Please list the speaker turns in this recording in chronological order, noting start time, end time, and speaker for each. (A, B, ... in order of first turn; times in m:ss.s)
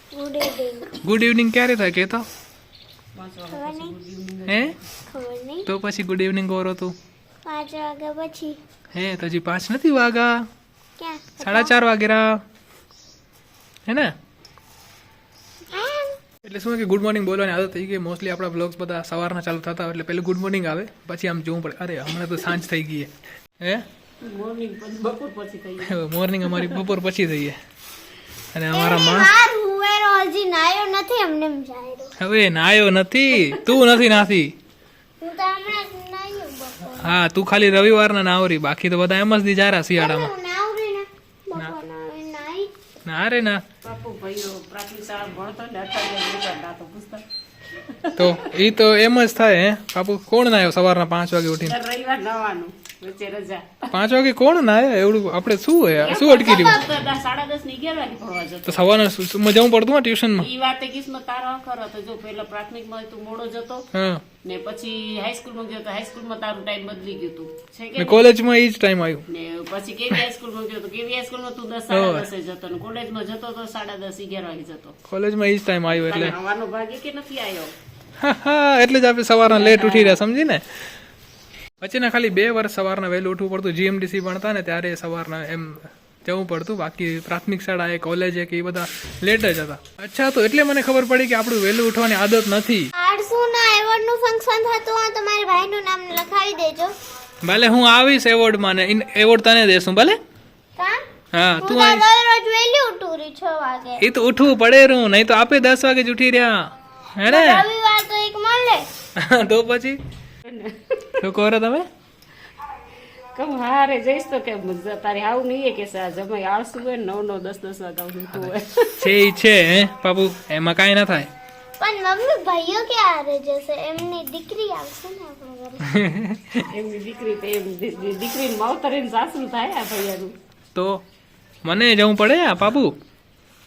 0:00.1-0:01.0 A
0:01.0-0:02.2 B
0:03.1-0:04.8 C
0:03.5-0:03.9 A
0:04.5-0:04.7 B
0:05.1-0:05.6 A
0:05.6-0:06.9 B
0:07.4-0:08.6 A
0:08.9-0:10.4 B
0:11.0-0:11.7 A
0:11.4-0:12.4 B
0:13.9-0:14.1 B
0:15.7-0:16.1 A
0:16.4-0:23.8 B
0:24.2-0:26.0 C
0:25.9-0:27.6 B
0:26.5-0:26.8 C
0:28.5-0:29.4 B
0:28.7-0:32.1 A
0:32.2-0:34.5 B
0:35.2-0:37.0 A
0:36.9-0:40.4 B
0:40.0-0:42.7 A
0:43.0-0:43.6 B
0:43.8-0:47.2 C
0:47.8-0:48.4 C
0:48.2-0:51.8 B
0:51.6-0:53.9 C
0:53.9-0:56.8 B
0:56.0-0:58.9 C
0:58.6-1:00.5 B
1:00.4-1:03.8 C
1:03.9-1:04.2 B
1:04.4-1:08.2 C
1:08.0-1:09.2 B
1:09.3-1:14.9 C
1:11.9-1:12.3 B
1:15.1-1:16.4 B
1:15.9-1:17.7 C
1:18.2-1:20.6 B
1:19.4-1:20.2 C
1:21.8-1:32.9 B
1:33.0-1:36.9 A
1:37.4-1:40.2 B
1:41.3-1:42.2 B
1:41.6-1:44.0 A
1:44.0-1:47.7 B
1:47.3-1:48.9 A
1:49.2-1:50.0 B
1:50.4-1:51.1 C
1:51.2-1:51.8 B
1:53.3-1:59.1 C
1:58.4-2:01.3 B
2:01.8-2:05.8 A
2:05.8-2:06.6 B
2:06.7-2:10.3 C
2:10.7-2:11.0 B
2:11.6-2:12.9 B